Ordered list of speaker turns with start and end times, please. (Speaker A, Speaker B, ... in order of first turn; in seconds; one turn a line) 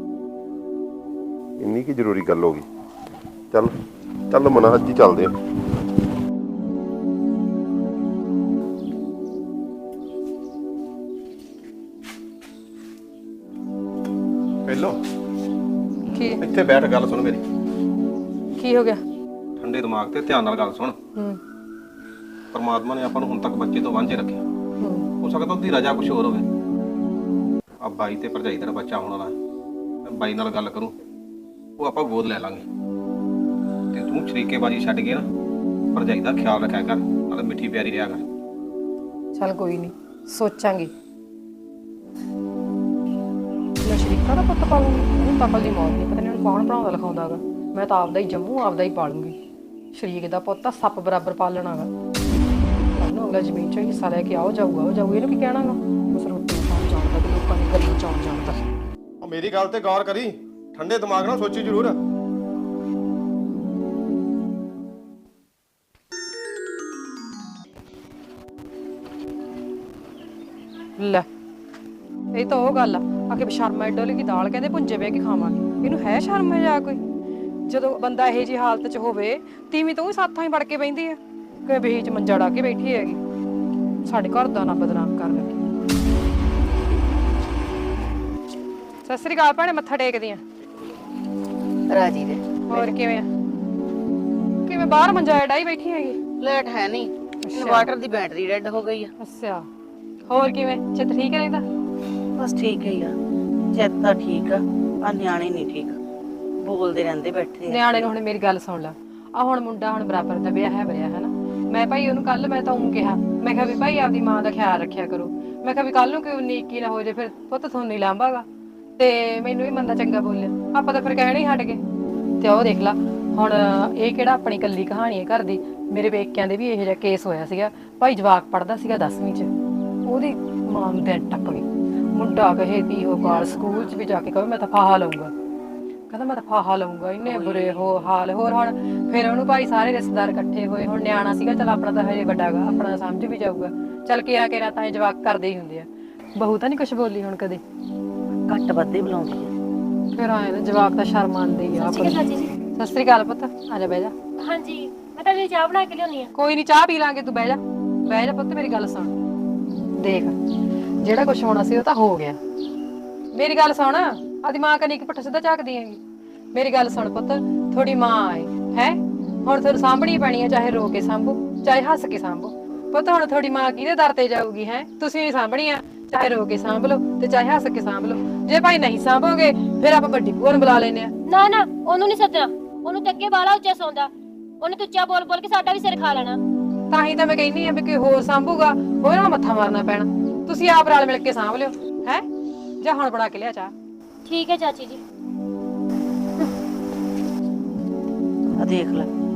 Speaker A: 1.6-2.6
Speaker A: 4.3-5.3
Speaker B: 14.7-14.9
Speaker C: 16.1-16.4
Speaker B: 16.4-17.4
Speaker C: 18.6-19.0
Speaker B: 19.6-20.9
Speaker B: 22.5-24.4
Speaker C: 24.8-25.0
Speaker B: 25.2-26.4
Speaker B: 27.8-29.3
Speaker B: 30.1-30.9
Speaker B: 31.8-32.6
Speaker B: 33.9-35.2
Speaker B: 35.9-38.2
Speaker C: 39.3-40.9
Speaker C: 43.8-49.4
Speaker C: 49.9-51.9
Speaker C: 52.9-58.6
Speaker B: 59.2-62.0
Speaker C: 71.0-71.2
Speaker C: 72.3-77.0
Speaker C: 77.7-83.2
Speaker C: 84.0-85.6
Speaker C: 89.0-90.4
Speaker D: 91.9-92.9
Speaker C: 92.7-93.3
Speaker C: 94.7-96.2
Speaker D: 96.4-99.1
Speaker C: 97.4-97.9
Speaker C: 99.2-99.7
Speaker C: 100.3-101.6
Speaker D: 102.3-103.1
Speaker D: 103.7-106.0
Speaker D: 106.6-108.1
Speaker C: 107.7-118.4
Speaker C: 119.0-121.8
Speaker C: 122.4-129.5
Speaker C: 130.1-135.3
Speaker C: 136.1-147.6
Speaker D: 148.5-149.5
Speaker C: 150.1-154.1
Speaker E: 151.8-152.5
Speaker E: 154.4-156.3
Speaker C: 156.3-159.1
Speaker C: 160.0-160.3
Speaker C: 161.0-162.4
Speaker C: 163.3-166.0
Speaker C: 166.5-181.1
Speaker E: 181.2-186.4
Speaker C: 186.9-192.2
Speaker C: 192.8-193.7
Speaker E: 194.2-195.0
Speaker D: 198.6-199.1